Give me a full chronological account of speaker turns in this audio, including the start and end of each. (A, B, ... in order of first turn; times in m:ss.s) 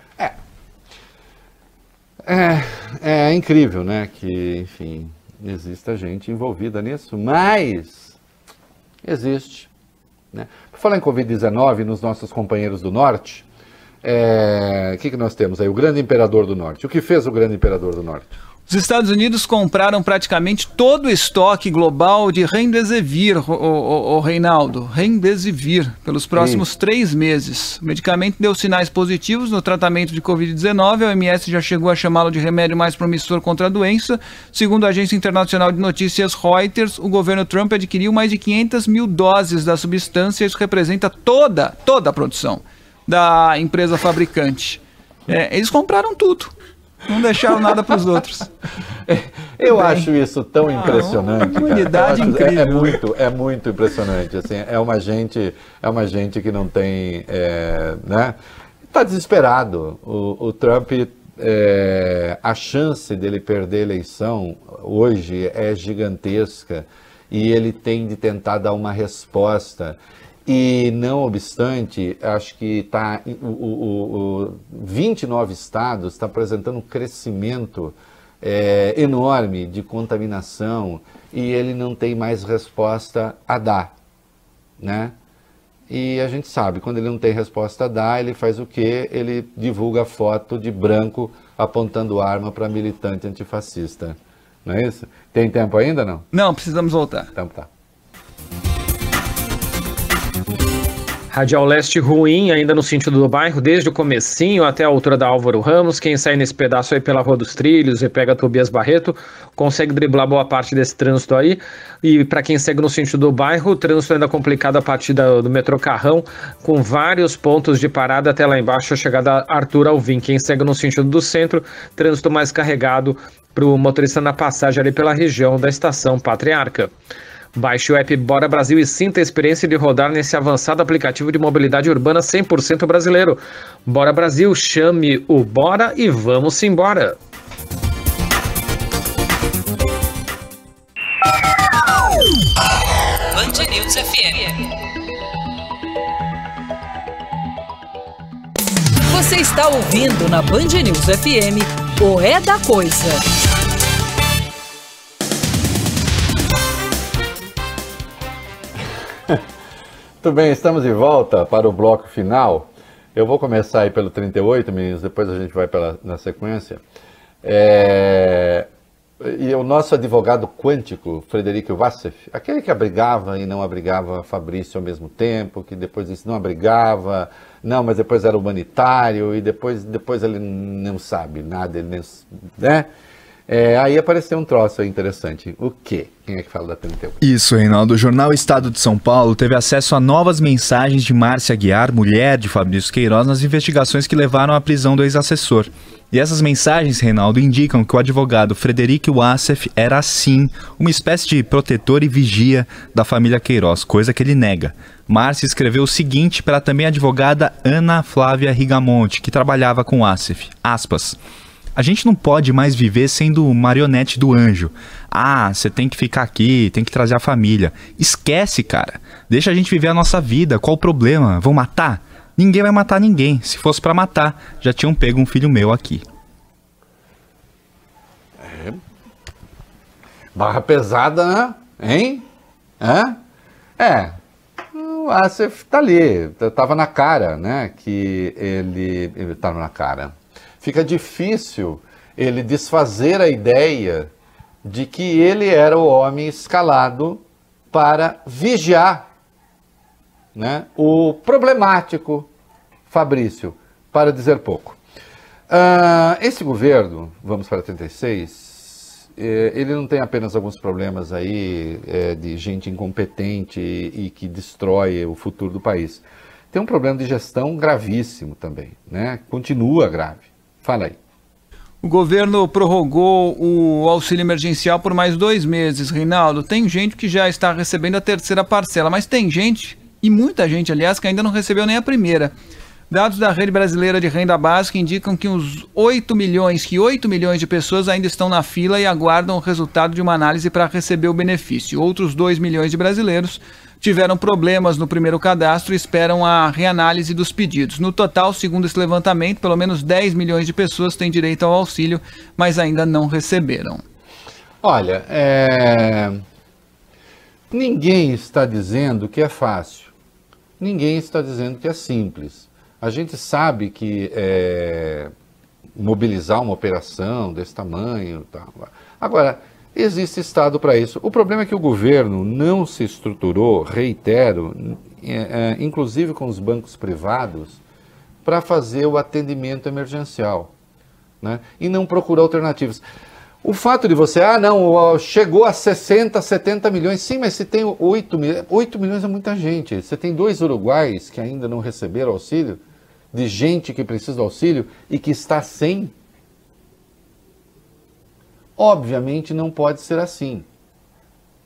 0:02.2-0:08.2 A
0:09.0-0:09.7 A
0:10.3-0:13.4 A
0:14.0-0:18.3 A
0:18.7-0:46.5 B
0:26.3-0:26.6 A
0:47.0-0:48.5 B
0:49.1-0:58.4 A
0:49.7-0:50.1 B
0:50.7-0:53.0 B
0:58.9-1:23.9 A
1:24.8-1:25.1 A
1:25.9-1:36.2 A
1:36.3-1:37.3 B
1:37.3-1:37.7 A
1:41.3-2:06.9 C
2:07.6-2:17.2 C
2:23.3-2:24.7 D
2:29.1-2:33.2 D
2:40.2-2:46.8 A
2:47.4-2:48.7 A
2:49.2-3:02.9 A
3:03.5-3:07.2 A
3:07.2-3:31.2 E
3:31.7-3:46.0 E
3:48.4-3:48.8 A
3:50.3-3:52.2 A
3:52.8-3:53.2 A
3:53.8-3:54.2 A
3:54.7-4:04.1 A
4:04.6-4:09.0 A
4:10.3-4:12.3 A
4:12.9-4:14.8 A
4:15.5-4:31.0 A
4:31.8-4:42.3 B
4:42.9-5:03.8 B
5:04.6-5:06.2 A
5:07.5-5:09.9 A
5:10.6-5:15.1 A
5:15.7-5:27.6 A
5:28.2-5:30.5 A
5:31.2-5:32.8 A
5:33.4-5:42.6 A
5:43.1-5:45.9 A
5:48.6-5:50.5 A